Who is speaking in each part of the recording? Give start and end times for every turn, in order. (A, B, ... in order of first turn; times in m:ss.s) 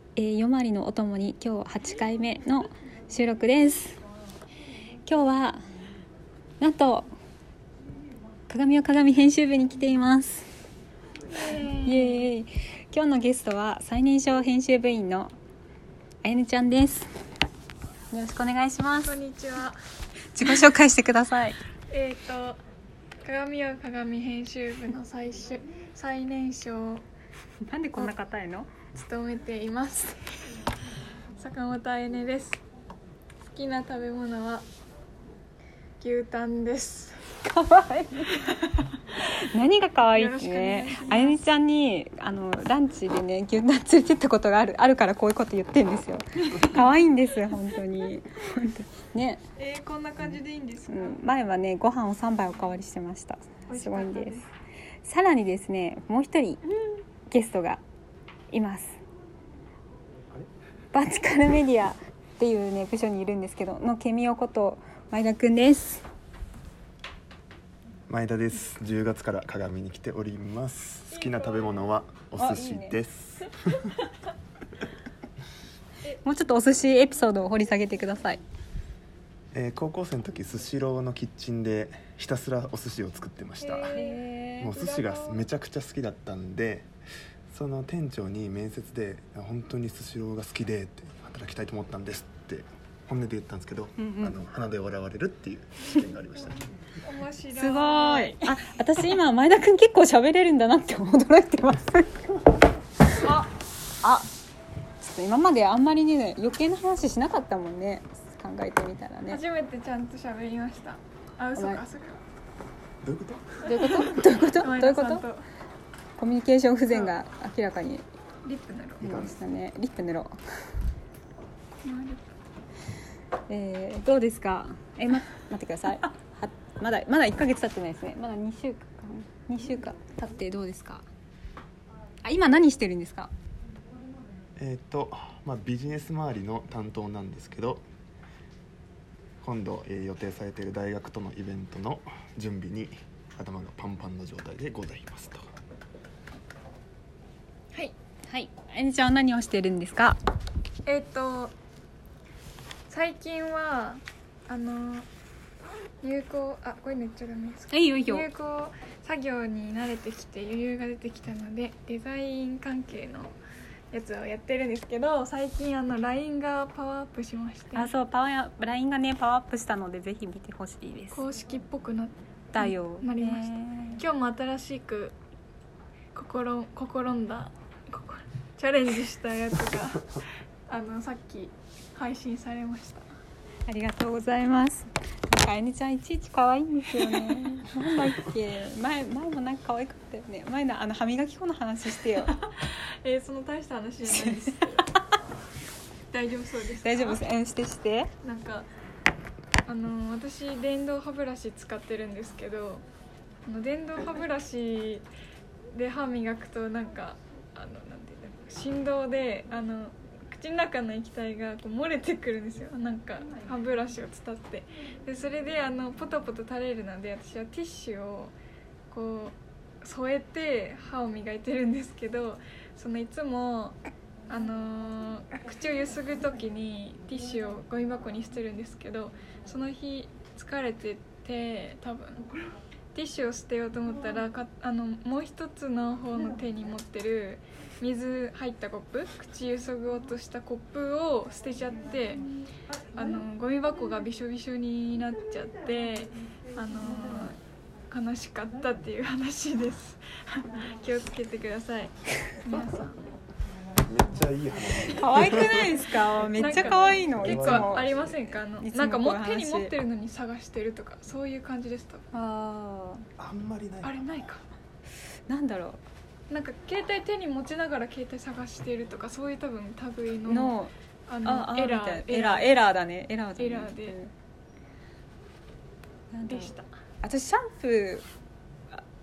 0:00.2-0:04.0 A
0:05.0-0:05.6 A
0:06.6-0:07.1 A
0:08.5-0:10.5 A
0:11.3-0:12.3 B
0:11.6-0:15.3 A
0:16.2-0:17.1 A
0:18.1-0:19.2 A
0:19.0-0:19.8 B
0:20.3-0:21.6 A
0:21.9-0:22.6 B
0:23.2-0:27.0 B
0:27.7-0:28.7 A
0:28.9-0:30.2 B
0:31.4-0:32.6 B
0:33.5-0:34.6 B
0:36.0-0:37.2 B
0:37.4-0:49.4 A
0:40.1-0:41.4 B
0:49.6-0:51.2 B
0:50.2-0:54.4 A
0:53.7-0:54.5 B
0:55.0-0:56.6 A
0:57.3-0:57.8 A
0:58.5-0:59.0 A
1:00.9-1:06.0 A
1:08.1-1:13.8 C
1:11.1-1:11.8 B
1:12.4-1:13.0 A
1:16.1-1:18.4 A
1:19.5-1:24.0 C
1:23.6-1:25.5 B
1:23.9-1:24.7 A
1:24.6-1:26.9 C
1:27.5-1:36.6 C
1:34.0-1:34.4 A
1:37.0-1:38.7 B
1:37.5-1:42.4 A
1:43.2-1:43.5 B
1:44.0-1:44.3 A
1:45.0-1:49.4 A
1:49.3-1:52.2 B
1:51.6-1:51.8 A
1:53.0-1:53.7 C
1:53.6-1:55.2 A
1:53.7-1:55.4 B
1:56.2-1:58.0 A
1:56.9-1:57.2 B
1:58.4-1:59.2 B
1:59.0-1:59.4 C
1:59.0-2:00.3 A
2:01.8-2:02.2 B
2:03.5-2:11.0 A
2:12.2-2:13.3 A
2:14.6-2:17.8 C
2:19.4-2:25.5 C
2:28.3-2:30.2 A
2:30.8-2:31.5 B
2:32.9-2:35.1 B
2:36.0-2:43.3 B
2:37.7-2:38.3 A
2:43.9-2:47.9 B
2:47.8-2:51.2 A
2:51.1-2:55.2 B
2:52.5-2:54.0 A
2:56.2-3:03.0 B
3:03.7-3:12.3 A
3:12.2-3:14.9 B
3:14.1-3:14.4 A
3:16.1-3:17.2 B
3:16.8-3:18.1 A
3:18.2-3:18.7 B
3:19.7-3:22.8 B
3:23.5-3:25.1 B
3:25.7-3:38.3 B
3:38.9-3:43.8 B
3:44.3-3:52.3 B
3:52.9-4:02.3 B
4:03.0-4:07.4 B
4:07.9-4:13.0 B
4:13.8-4:15.8 C
4:14.9-4:19.7 A
4:16.3-4:22.1 B
4:17.1-4:18.2 C
4:22.1-4:23.1 A
4:23.2-4:24.0 C
4:23.8-4:24.4 B
4:25.3-4:25.8 A
4:26.3-4:32.6 B
4:30.3-4:30.7 A
4:31.2-4:34.1 A
4:33.4-4:34.0 B
4:36.1-4:36.5 A
4:36.3-4:36.7 B
4:37.0-4:38.0 A